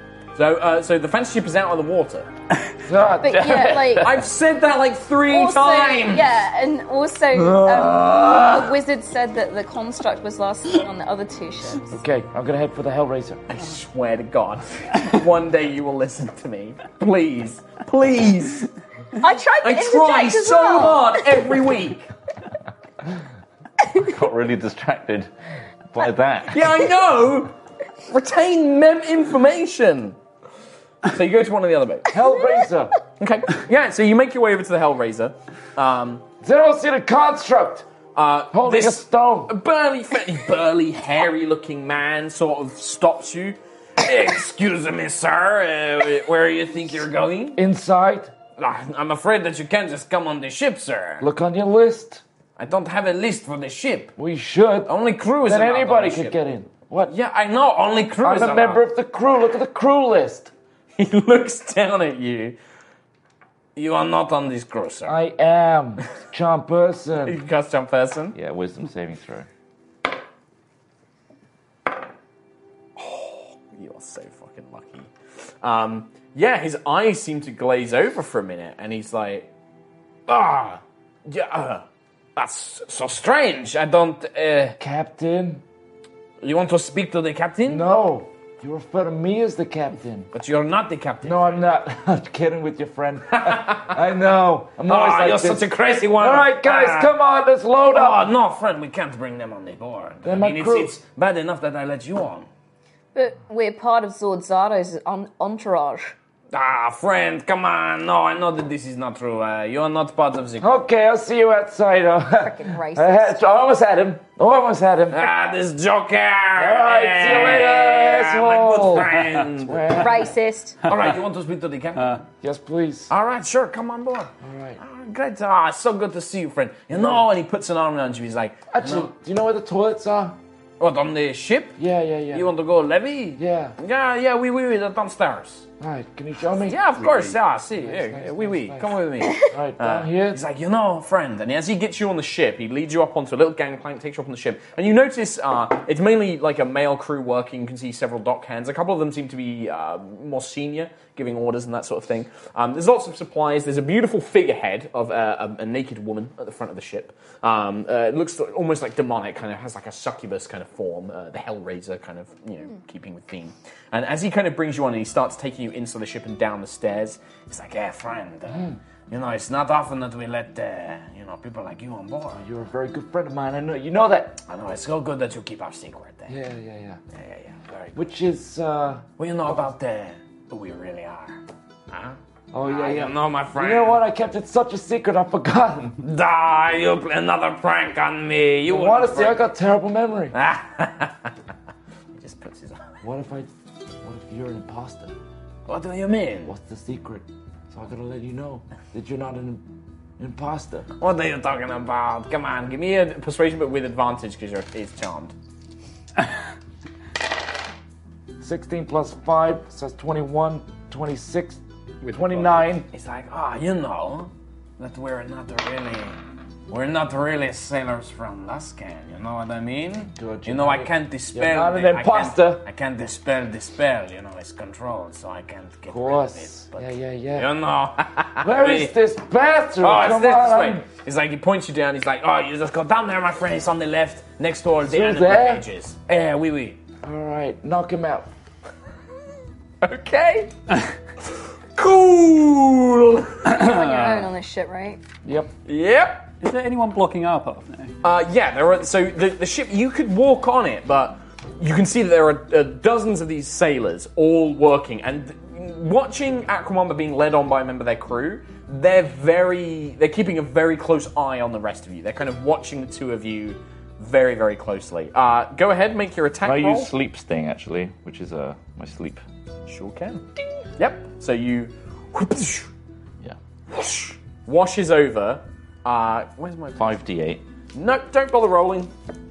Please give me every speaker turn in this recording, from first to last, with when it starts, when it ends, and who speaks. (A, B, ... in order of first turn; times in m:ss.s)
0:00.4-0:02.3 A
0:02.8-0:04.1 B
0:03.2-0:04.1 C
0:04.0-0:06.3 A
0:05.3-0:12.0 C
0:07.4-0:08.4 B
0:11.9-0:13.4 B
0:13.5-0:18.7 A
0:19.2-0:21.5 C
0:19.6-0:22.1 A
0:24.0-0:25.3 D
0:25.9-0:26.9 D
0:26.5-0:27.6 A
0:28.1-0:30.2 A
0:31.0-0:32.1 A
0:32.1-0:32.9 B
0:33.2-0:36.3 A
0:36.4-0:37.9 B
0:38.2-0:47.6 A
0:38.5-0:39.5 B
0:47.6-0:48.3 B
0:48.6-0:51.3 A
0:51.2-0:52.2 B
0:52.6-0:54.1 A
0:54.2-0:54.9 B
0:54.9-0:56.4 A
0:55.5-0:57.1 B
0:57.1-0:58.8 A
0:58.2-1:00.5 B
1:01.0-1:02.6 A
1:03.8-1:05.2 A
1:05.1-1:07.4 B
1:07.2-1:08.4 A
1:08.3-1:09.5 D
1:13.0-1:15.1 A
1:15.6-1:19.5 A
1:20.3-1:21.8 A
1:22.4-1:24.8 A
1:24.8-1:25.6 B
1:26.4-1:27.8 A
1:27.7-1:30.3 B
1:30.3-1:31.7 A
1:31.2-1:38.3 B
1:33.3-1:34.0 A
1:34.8-1:37.1 A
1:37.9-1:42.5 A
1:40.2-1:41.0 B
1:43.2-1:46.1 C
1:46.5-1:50.7 A
1:50.6-1:55.3 B
1:52.4-1:53.4 C
1:55.1-2:00.1 A
1:56.6-2:00.3 B
2:00.0-2:00.8 C
2:00.8-2:02.2 A
2:02.4-2:03.1 B
2:03.1-2:09.1 A
2:04.4-2:04.8 B
2:08.7-2:10.4 B
2:10.8-2:11.8 A
2:11.8-2:12.5 B
2:12.3-2:15.7 A
2:13.4-2:13.8 B
2:15.8-2:16.8 B
2:16.7-2:52.4 A
2:17.8-2:20.4 B
2:48.5-2:48.8 B
2:52.3-2:54.4 B
2:54.5-2:56.4 A
2:56.3-2:57.0 B
2:57.1-2:57.9 A
2:57.9-2:59.0 B
2:59.2-3:04.0 A
3:02.5-3:06.0 B
3:06.0-3:09.4 A
3:08.7-3:10.4 B
3:10.3-3:11.3 A
3:12.2-3:12.9 A
3:13.0-3:15.1 B
3:15.7-3:16.5 A
3:16.4-3:19.6 B
3:20.2-3:20.9 B
3:21.0-3:25.3 A
3:28.4-3:32.9 B
3:32.0-3:32.3 E
3:32.9-3:48.9 A
3:40.1-3:42.6 B
3:45.9-3:47.5 B
3:48.4-3:50.8 B
3:49.8-3:56.8 A
3:54.8-3:55.6 B
3:57.0-3:58.3 B
3:59.8-4:00.5 A
4:01.8-4:03.5 A
4:03.5-4:05.0 C
4:03.5-4:04.3 E
4:05.2-4:05.5 B
4:05.7-4:06.3 A
4:06.4-4:07.9 E
4:08.0-4:26.9 A
4:26.4-4:29.2 D
4:29.7-4:30.3 A
4:30.8-4:32.7 A
4:33.7-4:36.9 A
4:36.8-4:37.4 D
4:37.8-4:38.9 A